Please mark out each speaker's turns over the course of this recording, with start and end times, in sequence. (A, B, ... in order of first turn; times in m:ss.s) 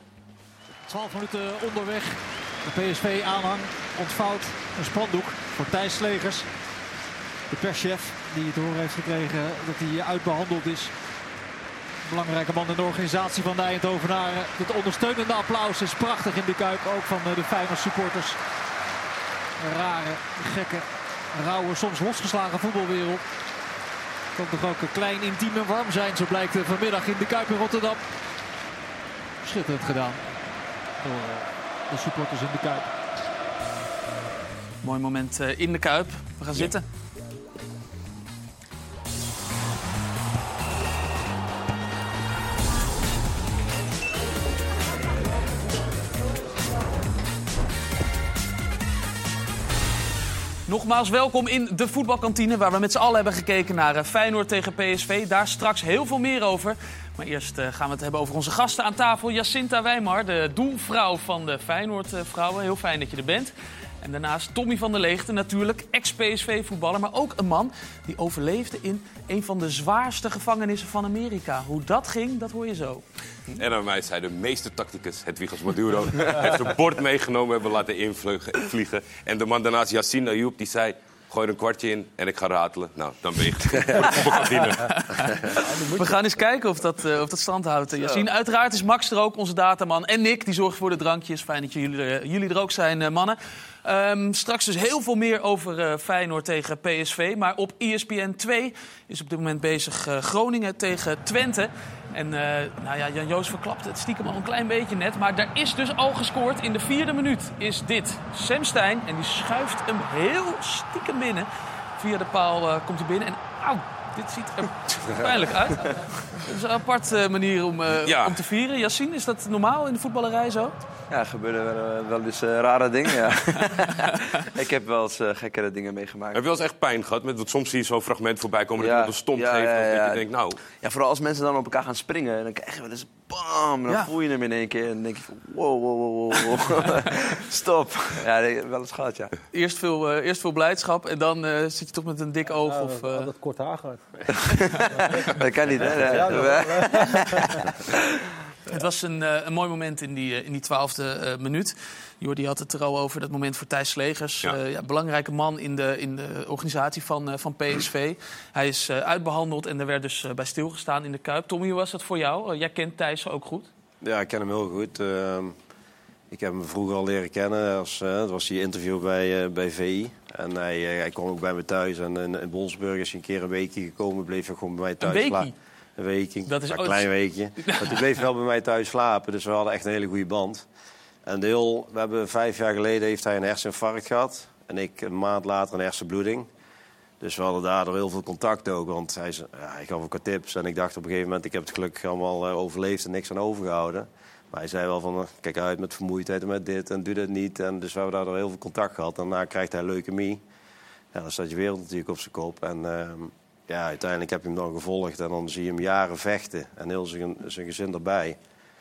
0:00.8-0:06.5 A
0:07.5-0:11.0 A
0:12.0-0:18.4 A
0:19.6-0:23.2 A
0:24.3-0:28.1 A
0:29.4-0:30.3 A
0:31.0-0:32.9 A
0:34.8-0:36.8 B
0:50.7-1:13.0 B
1:13.5-1:25.0 C
1:24.1-2:00.8 B
1:25.7-1:26.1 D
1:58.0-1:58.4 C
2:01.1-2:06.4 E
2:06.3-2:10.6 C
2:08.8-2:10.3 E
2:10.8-2:19.3 E
2:19.5-2:23.3 B
2:22.5-2:24.2 D
2:24.3-2:27.5 E
2:24.9-2:27.6 D
2:28.7-2:43.7 B
2:44.0-2:45.5 F
2:46.3-3:00.6 F
2:55.0-2:55.5 B
2:56.4-2:58.0 B
3:01.2-3:06.5 F
3:07.2-3:20.4 F
3:21.1-3:28.4 F